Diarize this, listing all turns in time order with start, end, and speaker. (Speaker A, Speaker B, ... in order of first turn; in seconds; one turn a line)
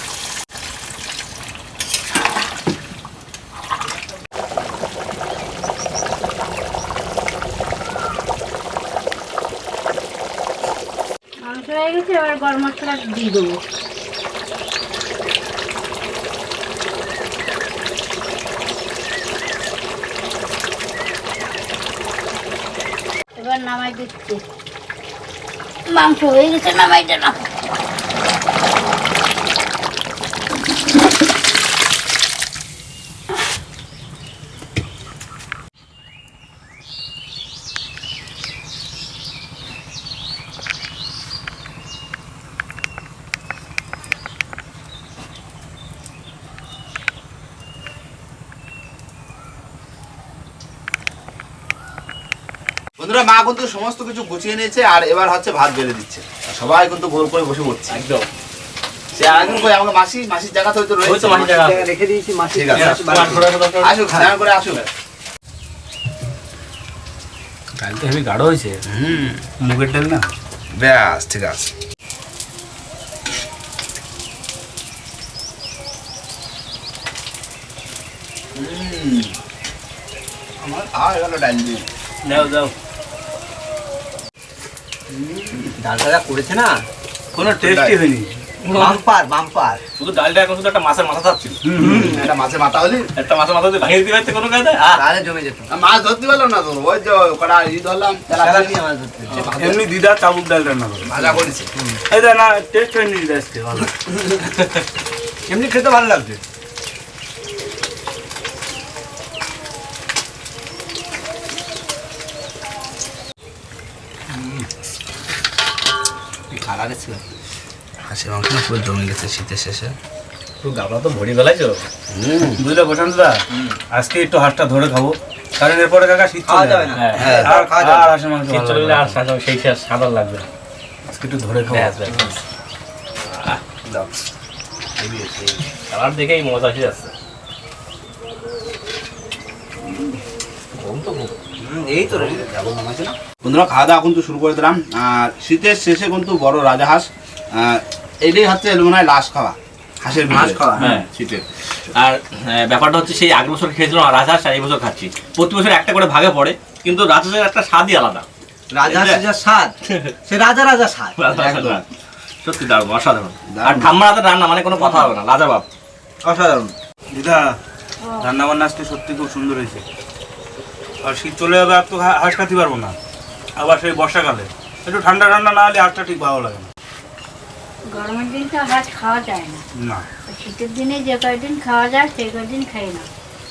Speaker A: 11.4-13.6
Speaker A: 23.3-24.4
Speaker A: 25.9-27.4
Speaker B: 53.0-58.0
Speaker C: 57.9-58.3
Speaker B: 59.1-61.5
Speaker C: 61.0-61.9
Speaker D: 61.3-63.6
Speaker B: 62.5-64.8
Speaker C: 62.7-64.1
Speaker E: 67.8-68.8
Speaker B: 68.9-69.4
Speaker E: 69.6-70.3
Speaker B: 70.7-71.7
Speaker B: 78.5-79.3
Speaker B: 80.6-81.8
Speaker B: 85.1-85.7
Speaker D: 85.7-86.8
Speaker E: 87.3-88.3
Speaker B: 87.5-87.9
Speaker C: 88.6-89.0
Speaker D: 88.7-89.8
Speaker C: 90.0-91.6
Speaker E: 91.7-91.9
Speaker B: 91.8-93.1
Speaker D: 91.9-92.1
Speaker C: 93.2-95.0
Speaker D: 94.9-95.7
Speaker B: 95.7-98.8
Speaker D: 98.3-99.7
Speaker E: 99.6-101.1
Speaker B: 101.0-101.7
Speaker D: 101.2-102.0
Speaker E: 102.1-103.9
Speaker D: 105.5-106.4
Speaker D: 116.5-117.2
Speaker B: 118.0-119.9
Speaker C: 120.6-121.8
Speaker B: 122.1-122.6
Speaker E: 122.6-123.3
Speaker E: 123.9-129.2
Speaker D: 126.4-128.1
Speaker C: 126.9-127.4
Speaker B: 127.1-127.5
Speaker C: 128.5-130.5
Speaker E: 131.1-132.3
Speaker C: 131.7-132.3
Speaker C: 133.3-133.6
Speaker D: 135.0-135.5
Speaker C: 135.8-137.1
Speaker D: 140.8-142.4
Speaker B: 142.0-150.7
Speaker D: 150.3-151.0
Speaker C: 150.3-158.2
Speaker D: 158.7-161.6
Speaker B: 158.8-159.2
Speaker C: 159.9-160.1
Speaker C: 161.2-161.8
Speaker B: 161.5-161.8
Speaker C: 162.4-165.7
Speaker B: 163.5-163.9
Speaker D: 166.2-166.7
Speaker E: 167.1-167.6
Speaker E: 168.2-169.8
Speaker E: 171.0-172.9
Speaker E: 173.6-176.7
Speaker A: 177.9-179.6
Speaker E: 179.7-180.1
Speaker A: 180.3-183.1